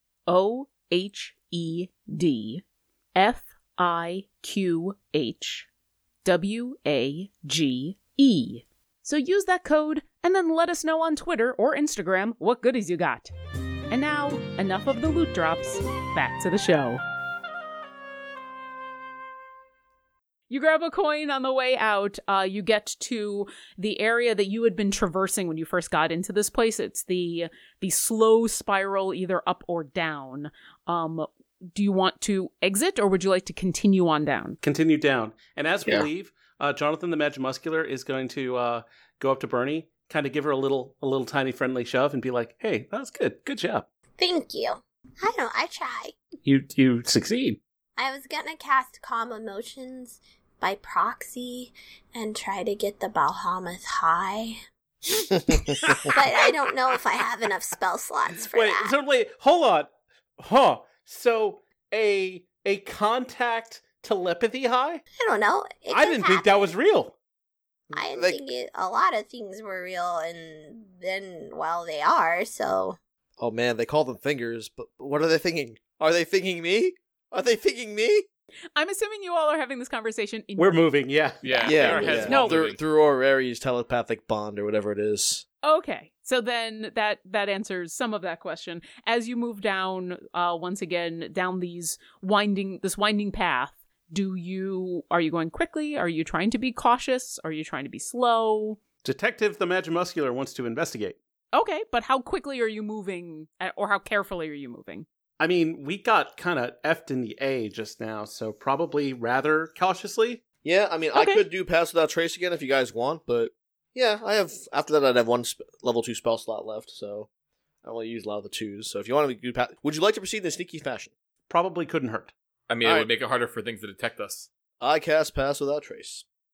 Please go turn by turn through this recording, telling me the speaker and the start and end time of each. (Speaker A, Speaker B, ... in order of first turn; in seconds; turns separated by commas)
Speaker A: 0.3-2.6, Speaker A: 3.1-5.7, Speaker A: 6.2-13.3, Speaker A: 13.9-17.0, Speaker A: 20.5-34.6, Speaker B: 34.6-43.9, Speaker C: 44.2-46.1, Speaker B: 46.4-47.6, Speaker C: 48.0-54.6, Speaker C: 55.1-58.9, Speaker D: 55.5-55.9, Speaker B: 58.5-65.0, Speaker C: 65.2-66.7, Speaker B: 65.9-67.1, Speaker D: 67.9-68.5, Speaker C: 67.9-73.0, Speaker D: 73.4-78.2, Speaker A: 78.8-80.9, Speaker B: 80.6-82.4, Speaker A: 81.4-82.6, Speaker E: 81.4-82.8, Speaker D: 81.7-85.4, Speaker A: 85.6-98.8, Speaker B: 99.0-101.2, Speaker A: 101.5-105.0, Speaker B: 105.4-110.4, Speaker D: 110.6-117.3, Speaker A: 111.1-111.4, Speaker D: 117.8-121.1, Speaker B: 121.5-122.3, Speaker E: 122.7-124.5, Speaker D: 122.8-123.1, Speaker D: 124.8-126.2